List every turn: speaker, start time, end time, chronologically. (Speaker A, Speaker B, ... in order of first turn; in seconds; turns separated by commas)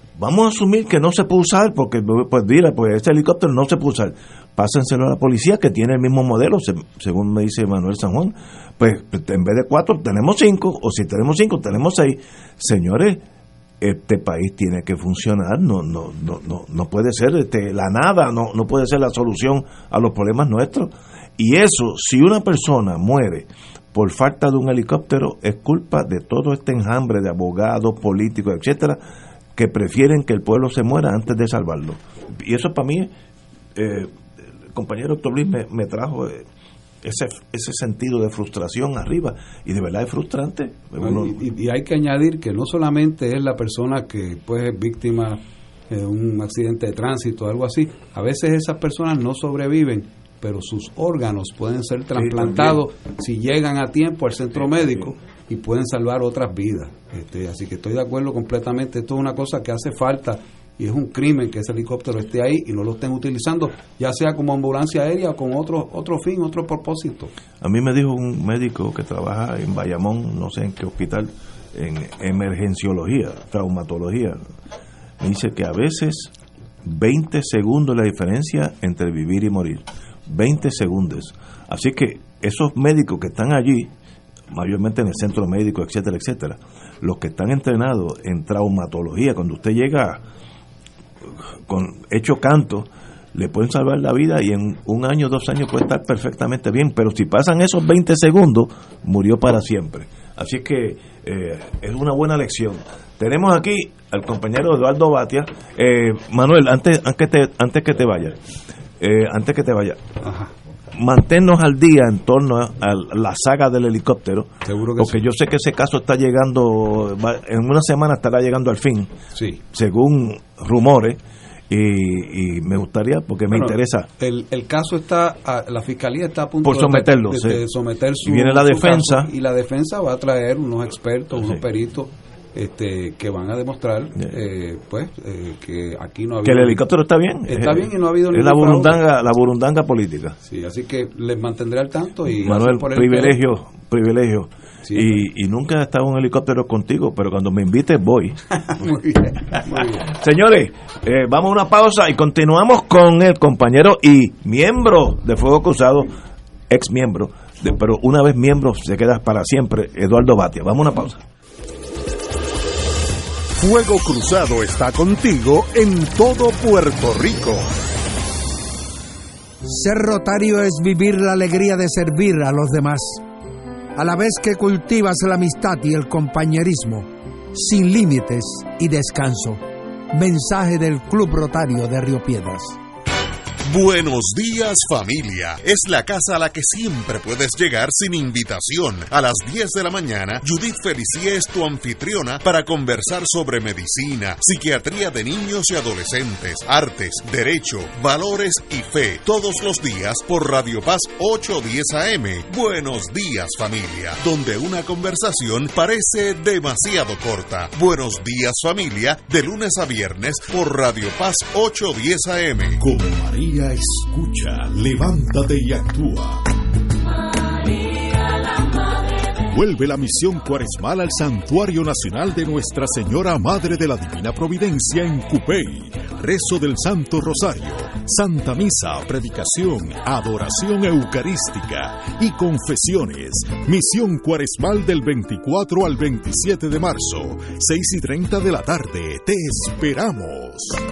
Speaker A: 0.2-13.2, Speaker A: 13.8-29.0, Speaker A: 29.5-33.1, Speaker A: 33.7-34.1, Speaker A: 34.7-36.5, Speaker A: 37.0-41.4, Speaker B: 41.0-67.3, Speaker A: 52.1-52.8, Speaker A: 54.5-55.1, Speaker A: 67.6-74.4, Speaker A: 75.2-76.3, Speaker A: 76.8-83.9, Speaker A: 84.5-90.2, Speaker A: 91.7-108.4, Speaker A: 109.0-110.2, Speaker B: 110.2-110.5, Speaker A: 110.9-119.1, Speaker B: 114.6-115.2, Speaker B: 119.3-119.6, Speaker A: 119.7-124.1, Speaker B: 123.5-136.9, Speaker A: 126.6-127.6, Speaker A: 128.2-129.3, Speaker A: 136.4-140.4, Speaker B: 137.4-139.0, Speaker B: 140.4-143.4, Speaker A: 142.3-148.4, Speaker B: 144.8-145.2, Speaker B: 148.8-150.1, Speaker A: 150.1-156.1, Speaker A: 156.7-161.2, Speaker C: 163.5-167.7, Speaker D: 169.6-173.2, Speaker D: 173.9-182.8, Speaker C: 183.7-212.8, Speaker E: 212.8-216.4, Speaker E: 219.4-240.8